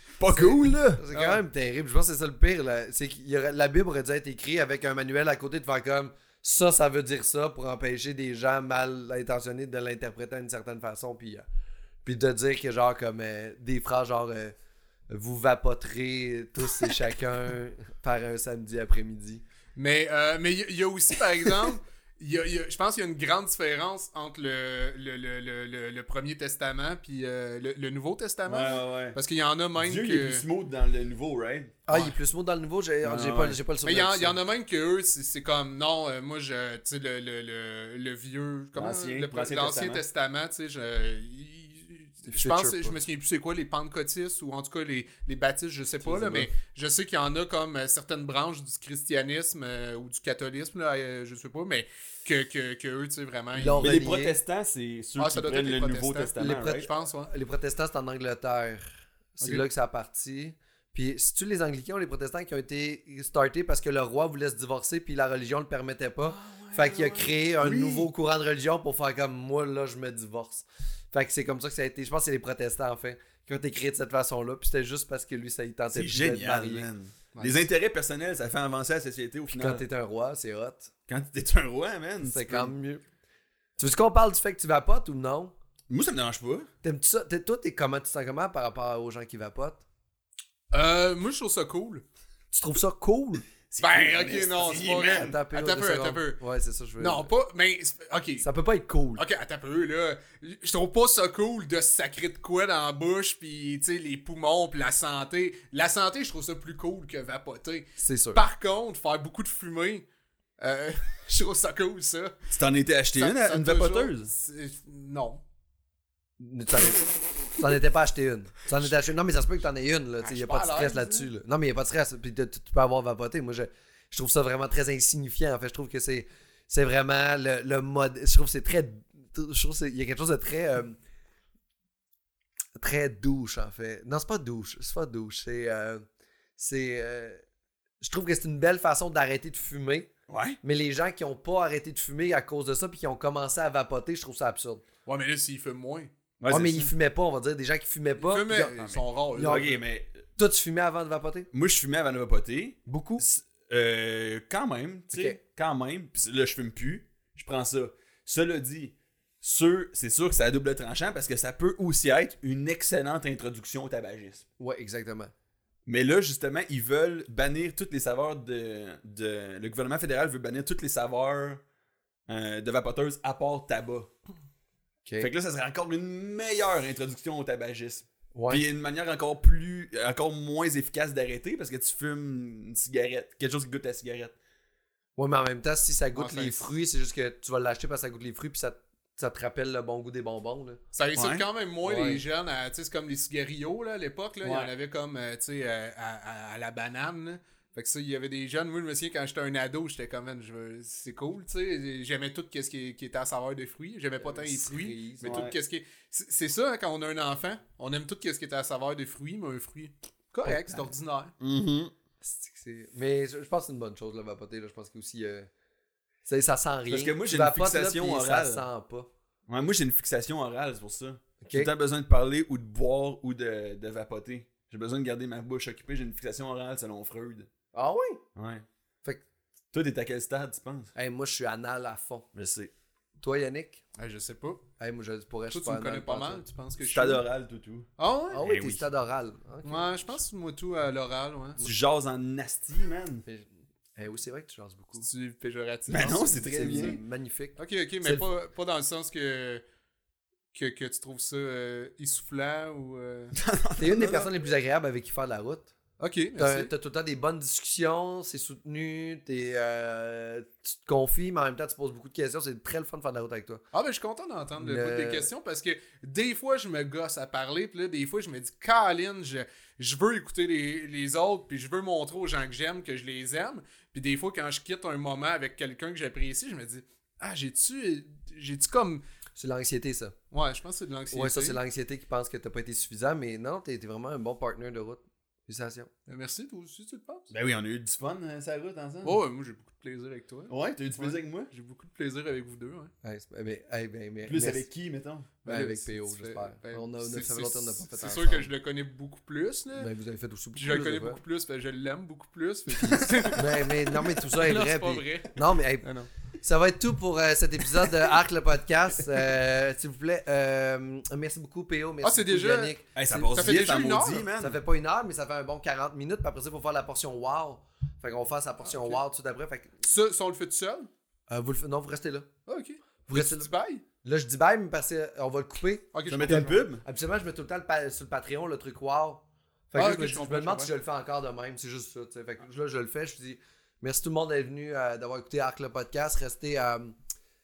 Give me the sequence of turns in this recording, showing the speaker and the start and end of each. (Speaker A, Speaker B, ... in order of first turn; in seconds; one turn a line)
Speaker A: 0.2-1.0
Speaker B: 0.3-11.5
Speaker C: 1.1-1.4
Speaker B: 12.0-14.5
Speaker B: 15.1-19.4
Speaker C: 19.7-30.4
Speaker A: 28.4-29.2
Speaker A: 29.8-31.8
Speaker B: 31.9-34.4
Speaker C: 31.9-32.1
Speaker A: 33.0-33.6
Speaker C: 33.8-54.0
Speaker A: 38.7-40.0
Speaker B: 42.3-43.0
Speaker A: 46.0-46.4
Speaker B: 53.5-54.4
Speaker A: 53.8-56.9
Speaker C: 55.2-57.3
Speaker B: 57.3-58.8
Speaker B: 59.4-76.9
Speaker A: 66.4-68.1
Speaker A: 75.9-79.8
Speaker C: 77.3-77.6
Speaker B: 79.5-80.9
Speaker A: 81.1-82.7
Speaker B: 82.2-83.0
Speaker B: 83.8-85.5
Speaker A: 85.9-86.7
Speaker B: 86.8-89.8
Speaker C: 90.7-92.0
Speaker B: 92.5-93.5
Speaker A: 93.7-95.4
Speaker C: 93.8-96.4
Speaker B: 94.3-97.3
Speaker C: 97.0-98.5
Speaker B: 98.4-99.2
Speaker C: 99.2-110.0
Speaker B: 108.0-108.4
Speaker C: 110.6-112.3
Speaker A: 112.5-114.3
Speaker C: 113.2-115.4
Speaker B: 116.4-131.0
Speaker C: 120.2-121.3
Speaker B: 132.7-136.0
Speaker B: 136.6-137.4
Speaker B: 138.0-140.1
Speaker A: 140.3-140.6
Speaker B: 140.6-144.8
Speaker C: 145.1-146.1
Speaker A: 146.4-146.9
Speaker B: 146.5-148.8
Speaker C: 148.2-149.8
Speaker A: 148.8-150.2
Speaker B: 149.3-149.7
Speaker B: 150.3-151.5
Speaker A: 151.5-164.4
Speaker B: 152.8-153.2
Speaker B: 155.1-155.4
Speaker B: 164.6-165.3
Speaker A: 165.8-171.6
Speaker A: 172.3-174.1
Speaker B: 175.0-175.3
Speaker A: 175.2-184.3
Speaker B: 178.3-178.6
Speaker B: 185.2-190.8
Speaker C: 186.1-186.7
Speaker C: 190.9-211.3
Speaker A: 191.1-191.4
Speaker B: 191.8-192.2
Speaker A: 194.4-194.7
Speaker B: 204.2-205.5
Speaker A: 205.2-205.5
Speaker B: 210.4-210.8
Speaker A: 211.4-211.9
Speaker B: 212.2-215.5
Speaker B: 216.2-219.1
Speaker A: 216.9-218.7
Speaker A: 219.5-227.5
Speaker B: 221.4-221.7
Speaker B: 227.7-228.2
Speaker A: 228.3-228.6
Speaker A: 229.7-230.9
Speaker B: 230.9-232.3
Speaker A: 232.3-232.7
Speaker B: 233.2-233.8
Speaker C: 234.0-234.6
Speaker B: 234.8-236.4
Speaker C: 235.5-237.2
Speaker A: 236.8-237.9
Speaker C: 238.0-238.5
Speaker B: 238.3-240.2
Speaker A: 238.4-238.8
Speaker C: 239.6-241.6
Speaker A: 241.6-243.2
Speaker B: 243.2-245.1
Speaker C: 245.0-246.9
Speaker A: 245.9-247.0
Speaker B: 246.5-248.2
Speaker C: 247.6-249.6
Speaker C: 250.5-253.3
Speaker A: 253.3-254.3
Speaker B: 253.8-255.7
Speaker C: 256.0-256.7
Speaker B: 256.4-263.6
Speaker C: 263.7-279.0
Speaker B: 264.6-265.3
Speaker B: 279.4-280.1
Speaker C: 280.3-281.6
Speaker B: 281.1-285.9
Speaker C: 286.1-287.3
Speaker A: 287.3-289.2
Speaker C: 289.0-292.9
Speaker A: 290.5-291.5
Speaker B: 293.0-294.7
Speaker A: 294.2-295.3
Speaker C: 295.4-299.9
Speaker B: 295.4-298.5
Speaker B: 299.7-301.2
Speaker C: 300.6-306.1
Speaker B: 302.8-305.9
Speaker A: 302.9-303.3
Speaker B: 306.4-313.3
Speaker C: 312.0-314.3
Speaker A: 312.9-314.6
Speaker B: 314.4-319.7
Speaker C: 318.6-319.0
Speaker C: 319.8-320.9
Speaker B: 321.3-322.3
Speaker C: 322.5-323.8
Speaker B: 323.1-323.5
Speaker B: 324.0-336.9
Speaker C: 325.9-326.6
Speaker A: 326.1-326.8
Speaker C: 329.7-330.8